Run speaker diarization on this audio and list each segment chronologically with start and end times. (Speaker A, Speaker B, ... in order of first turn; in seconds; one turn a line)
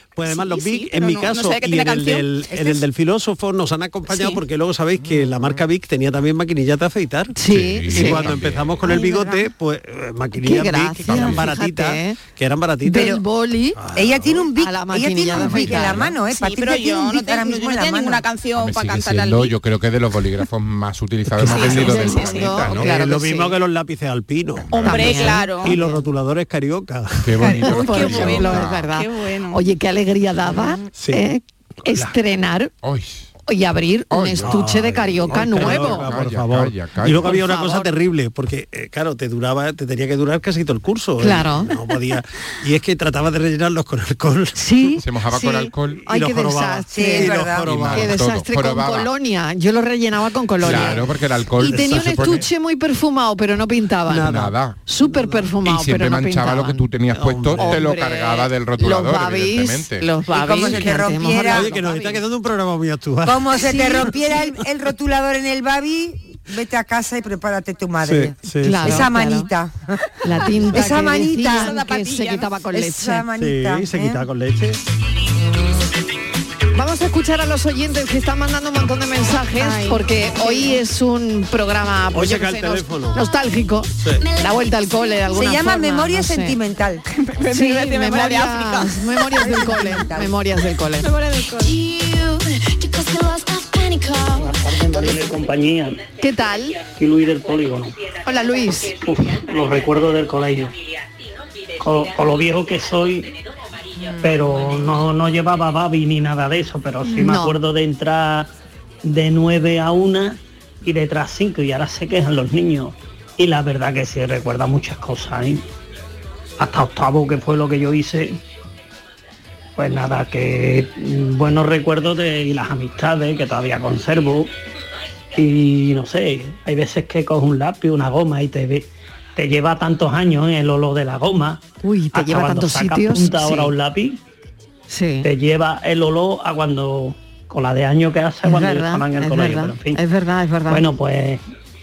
Speaker A: 0.1-7.3
Speaker B: 0.2-2.6
Speaker C: 7.4-9.4
Speaker D: 7.5-8.8
Speaker A: 7.9-13.2
Speaker C: 10.4-12.2
Speaker D: 11.1-11.4
Speaker C: 12.8-13.8
Speaker E: 12.9-13.2
Speaker A: 13.8-14.5
Speaker E: 13.9-18.2
Speaker C: 14.6-16.0
Speaker D: 15.4-16.0
Speaker B: 16.3-19.5
Speaker D: 18.6-22.9
Speaker A: 21.3-21.8
Speaker C: 21.4-23.6
Speaker B: 21.5-22.6
Speaker A: 22.7-27.5
Speaker D: 24.7-25.2
Speaker B: 24.7-25.7
Speaker C: 24.7-26.0
Speaker D: 27.2-28.9
Speaker C: 27.4-32.7
Speaker B: 27.6-29.7
Speaker A: 30.9-31.2
Speaker A: 31.9-32.1
Speaker D: 32.8-33.3
Speaker C: 33.5-36.1
Speaker D: 34.1-34.6
Speaker A: 34.4-45.0
Speaker D: 35.3-37.4
Speaker C: 37.2-37.9
Speaker C: 41.2-41.7
Speaker C: 44.5-51.0
Speaker D: 45.0-46.0
Speaker A: 45.9-48.1
Speaker E: 46.9-47.7
Speaker D: 47.6-49.1
Speaker A: 50.6-52.4
Speaker D: 50.6-52.4
Speaker C: 51.6-56.9
Speaker A: 54.1-55.5
Speaker D: 54.2-54.8
Speaker D: 55.6-60.1
Speaker A: 57.1-57.8
Speaker C: 57.5-62.2
Speaker E: 60.3-61.7
Speaker A: 61.5-64.5
Speaker E: 63.2-70.0
Speaker C: 63.6-64.1
Speaker A: 68.0-69.1
Speaker C: 68.6-69.5
Speaker C: 70.2-73.2
Speaker E: 70.7-71.7
Speaker B: 71.5-72.5
Speaker E: 72.7-74.2
Speaker A: 73.4-74.8
Speaker C: 76.7-86.6
Speaker B: 79.6-80.8
Speaker A: 82.1-83.2
Speaker A: 84.0-84.2
Speaker E: 85.3-87.0
Speaker B: 87.2-89.1
Speaker C: 87.5-91.1
Speaker E: 89.4-90.3
Speaker B: 91.0-91.9
Speaker F: 94.3-96.0
Speaker C: 96.2-96.8
Speaker F: 96.9-98.0
Speaker C: 98.2-99.0
Speaker F: 98.9-100.7
Speaker F: 101.8-103.3
Speaker F: 104.2-108.5
Speaker C: 107.1-107.5
Speaker F: 109.0-115.6
Speaker F: 116.6-118.4
Speaker F: 119.8-124.5
Speaker F: 125.3-131.6
Speaker C: 131.8-133.7
Speaker F: 132.1-134.2
Speaker C: 134.9-135.3
Speaker F: 135.2-140.0
Speaker C: 138.4-140.8
Speaker F: 140.7-141.4